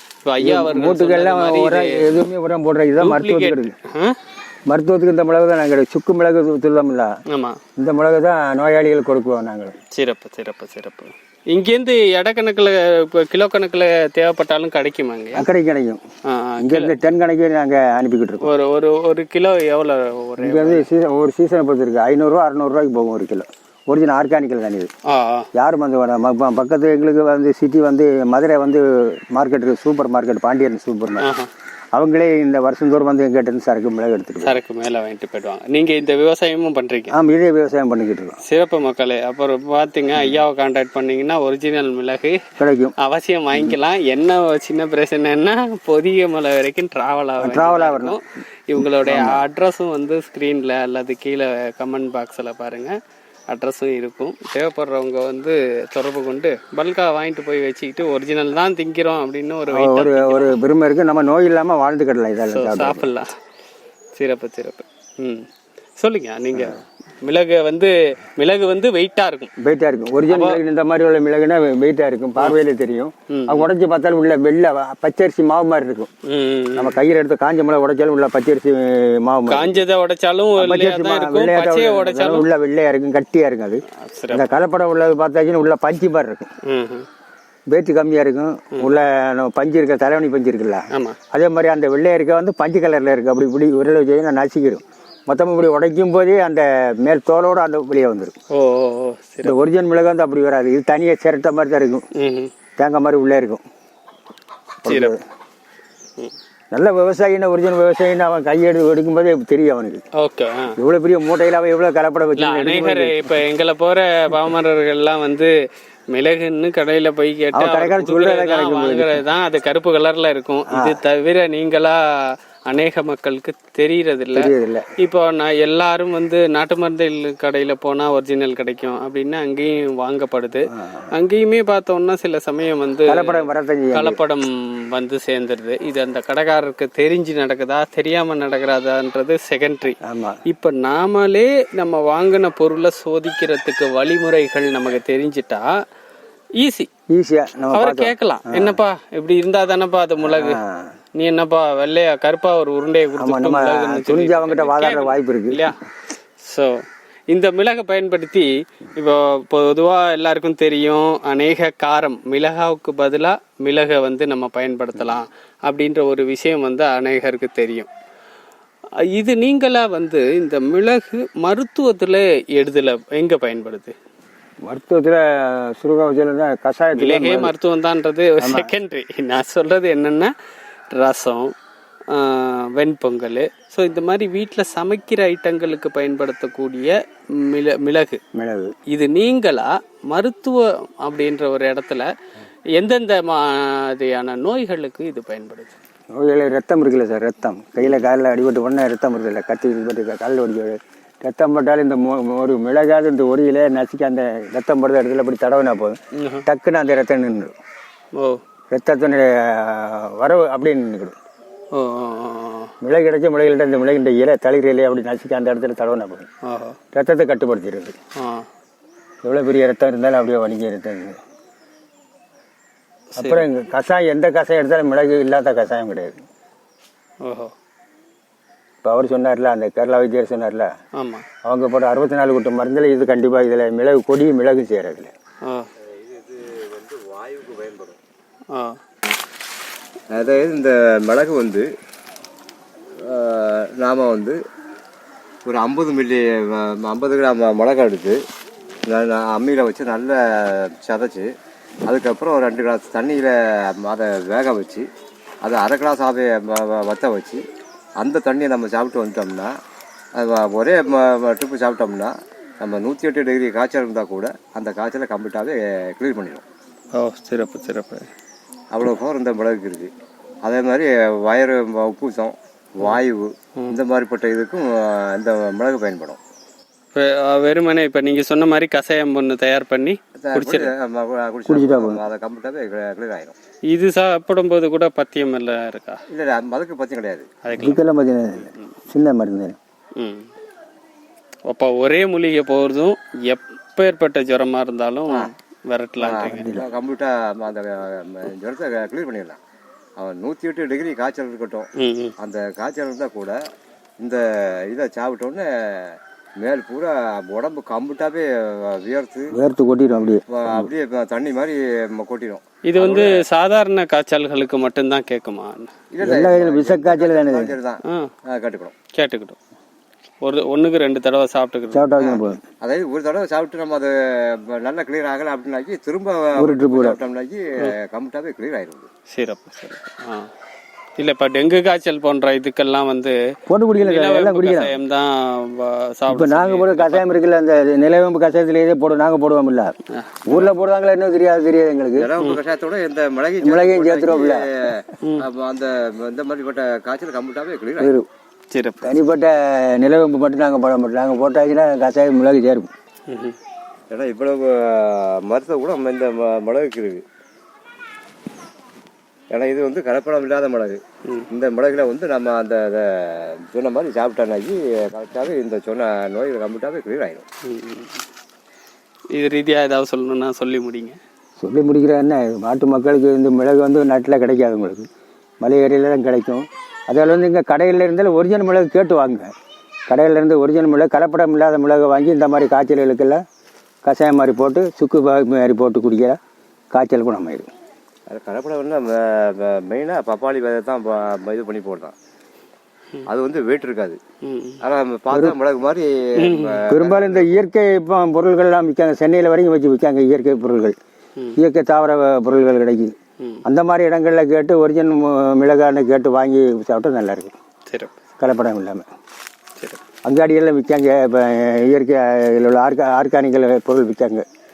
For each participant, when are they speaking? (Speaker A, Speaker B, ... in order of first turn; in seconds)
Speaker A: 0.2-2.1, 3.0-4.2, 7.3-7.6, 9.9-15.5, 16.2-16.9, 18.4-20.9, 25.1-25.5, 31.2-31.5, 34.4-37.1, 38.5-42.4, 43.0-52.9, 53.5-60.6, 62.5-63.3, 64.1-65.5, 66.0-69.5, 70.3-70.6, 73.3-73.7, 76.3-77.0, 79.5-82.5, 84.0-84.5, 86.7-87.0, 90.9-91.2, 98.5-99.6, 102.2-102.5, 104.8-105.1, 110.2-110.8, 112.4-115.5, 116.1-145.7, 146.6-146.9, 147.7-150.6, 151.2-155.8, 156.4-167.9, 169.1-173.9, 177.0-180.3, 180.9-181.5, 182.1-188.2, 188.9-192.1, 192.7-195.7, 206.2-206.4, 208.1-208.4, 211.7-212.7, 216.4-216.8, 218.2-218.5, 223.1-223.4, 227.2-227.5, 231.0-231.2, 238.5-238.8, 266.9-268.1, 276.9-280.7, 283.7-286.0, 287.4-287.8, 290.0-290.3, 291.5-296.5, 301.8-302.1, 312.6-315.7, 317.8-318.1, 318.9-319.4, 320.2-321.9, 329.1-330.3, 331.0-333.1, 333.8-337.1, 339.9-340.4, 348.5-348.9, 353.1-353.4, 367.4-367.9, 369.1-371.0, 394.2-394.6, 396.2-396.6, 407.7-407.9
Speaker B: 0.4-3.7, 4.7-7.1, 7.8-9.8, 15.3-16.0, 16.6-18.4, 20.4-24.9, 25.5-31.3, 31.9-34.6, 37.1-38.4, 42.6-42.9, 47.4-48.2, 48.9-49.4, 59.7-63.1, 69.6-76.1, 76.8-79.8, 80.6-86.5, 87.7-98.3, 99.4-102.0, 102.8-103.6, 104.8-105.2, 106.7-110.0, 110.8-113.4, 117.5-119.2, 120.7-121.0, 124.3-124.9, 130.7-131.1, 133.1-134.2, 140.0-140.4, 147.1-148.8, 150.2-150.9, 153.2-155.6, 174.6-177.5, 178.4-178.7, 188.3-188.7, 196.1-207.5, 208.7-211.1, 212.8-216.3, 216.9-217.9, 219.2-221.2, 223.2-226.2, 228.8-230.7, 231.4-235.1, 281.5-282.0, 287.5-289.6, 296.3-296.7, 309.3-310.7, 316.0-317.5, 321.7-322.4, 326.4-327.0, 333.5-334.7, 336.1-339.7, 340.3-342.1, 343.4-344.5, 347.8-348.1, 348.8-352.7, 371.4-374.9, 375.4-379.3, 379.9-383.2, 383.8-386.2, 386.7-387.5, 396.7-400.8, 401.4-402.9, 403.4-407.3, 408.2-408.9, 410.0-414.2
Speaker C: 235.9-238.0, 240.1-241.7, 243.0-244.4, 245.4-248.2, 248.9-251.3, 251.9-254.8, 255.4-257.4, 258.0-259.5, 260.1-266.4, 268.7-269.9, 270.4-276.2, 280.2-283.3, 286.1-287.3, 296.0-299.4, 300.0-303.4, 304.0-309.3, 310.4-313.2, 315.9-318.7, 322.0-328.9, 342.0-347.9, 353.9-357.0, 359.3-360.8, 361.3-367.2, 388.1-391.9, 393.1-394.0, 394.6-397.4